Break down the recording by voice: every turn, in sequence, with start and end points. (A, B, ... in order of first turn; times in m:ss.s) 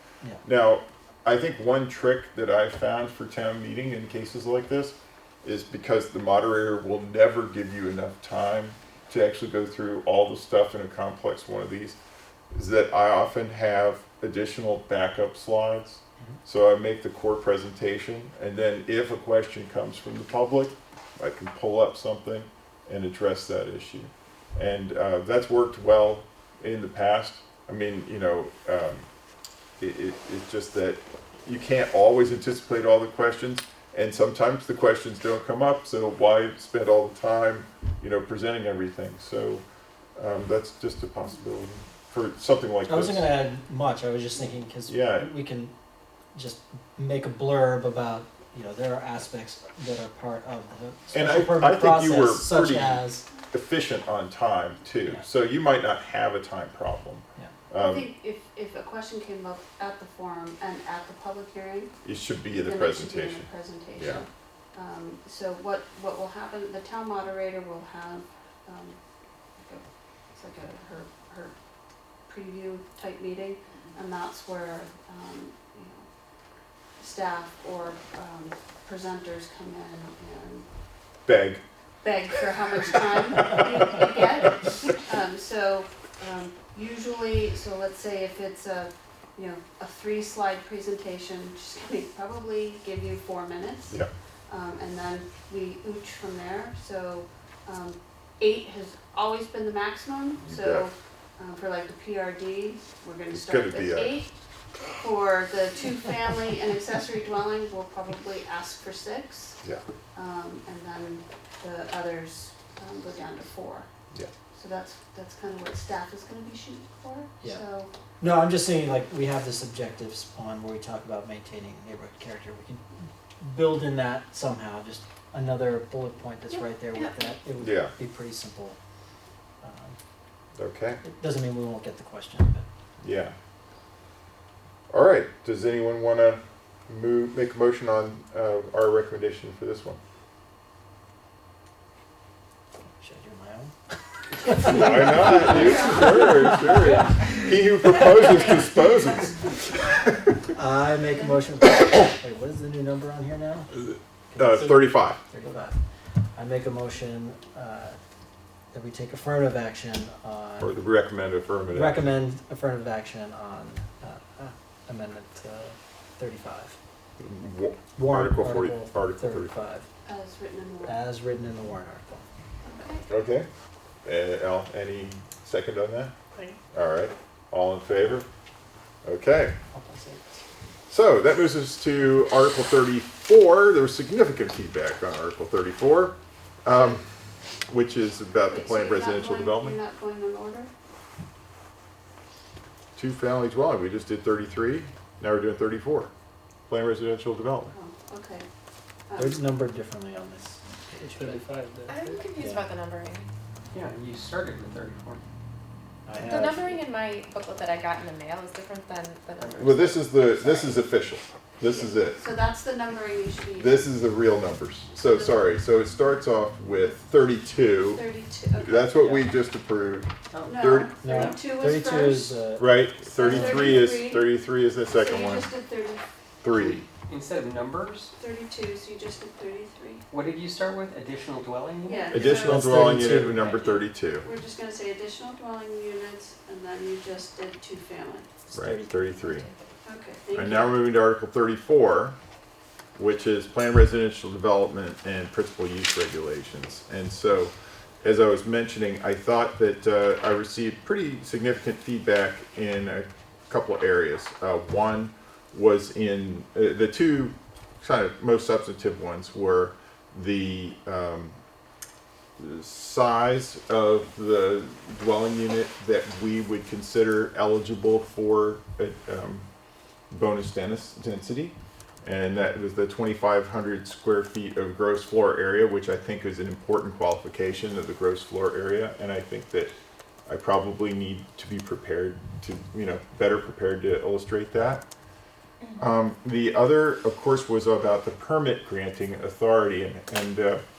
0:00.4-0:12.0 A
0:12.5-0:29.1 A
0:29.8-0:39.6 A
0:40.2-0:43.3 A
0:42.9-0:45.7 B
0:44.9-0:45.3 A
0:46.3-0:53.2 B
0:51.1-0:58.1 A
0:57.8-1:01.9 C
1:02.0-1:04.2 A
1:02.6-1:09.0 C
1:09.5-1:11.5 C
1:12.3-1:16.1 C
1:17.0-1:20.7 C
1:21.2-1:21.6 A
1:22.0-1:44.3 C
1:40.4-1:40.9 A
1:43.3-1:44.2 A
1:45.0-1:49.6 C
1:50.1-1:53.9 C
1:54.6-1:57.9 C
1:58.2-2:08.8 B
2:07.6-2:07.9 A
2:09.6-2:10.0 B
2:10.6-2:11.0 A
2:11.0-2:12.6 B
2:13.0-2:13.3 A
2:14.9-2:20.0 A
2:22.8-2:23.7 B
2:24.3-2:27.0 B
2:24.6-2:30.3 A
2:25.1-2:26.9 C
2:28.1-2:28.8 C
2:30.5-2:33.7 B
2:33.8-2:35.2 A
2:34.3-2:35.8 B
2:36.4-2:38.0 B
2:38.7-2:40.7 B
2:40.6-2:42.0 A
2:41.7-2:46.8 B
2:47.2-2:49.5 A
2:48.0-2:49.9 B
2:50.0-2:51.0 C
2:50.8-2:52.3 B
2:52.7-2:53.0 C
2:53.1-2:53.5 A
2:54.0-2:56.1 A
2:56.7-2:58.3 A
2:59.0-2:59.5 A
2:59.7-3:00.4 B
3:00.9-3:07.0 A
3:07.7-3:09.8 A
3:08.5-3:10.7 C
3:13.0-3:16.1 A
3:16.7-3:17.7 A
3:17.7-3:18.4 C
3:19.1-3:19.5 C
3:19.2-3:21.4 B
3:21.8-3:22.1 D
3:21.9-3:23.3 E
3:22.3-3:22.7 B
3:23.7-3:25.2 D
3:26.0-3:26.8 B
3:26.2-3:30.1 E
3:29.6-3:32.2 A
3:31.7-3:33.9 C
3:33.6-3:38.0 A
3:37.8-3:38.9 C
3:38.6-3:40.9 A
3:39.0-3:39.2 D
3:40.3-3:41.3 D
3:40.4-3:42.4 C
3:41.0-3:43.9 B
3:42.6-3:45.5 A
3:43.1-3:44.3 C
3:44.9-3:46.0 C
3:46.4-3:46.8 A
3:47.1-3:48.1 D
3:48.2-3:50.0 C
3:50.1-3:53.8 D
3:51.8-3:52.8 C
3:52.1-3:54.3 A
3:52.2-3:53.5 B
3:54.2-3:58.3 C
3:58.5-3:59.0 B
3:58.5-3:59.5 A
3:59.8-4:00.8 C
4:00.3-4:02.2 A
4:03.0-4:21.4 A
4:22.4-4:29.5 A
4:30.1-4:39.7 A
4:40.3-4:44.8 A
4:45.8-4:50.6 A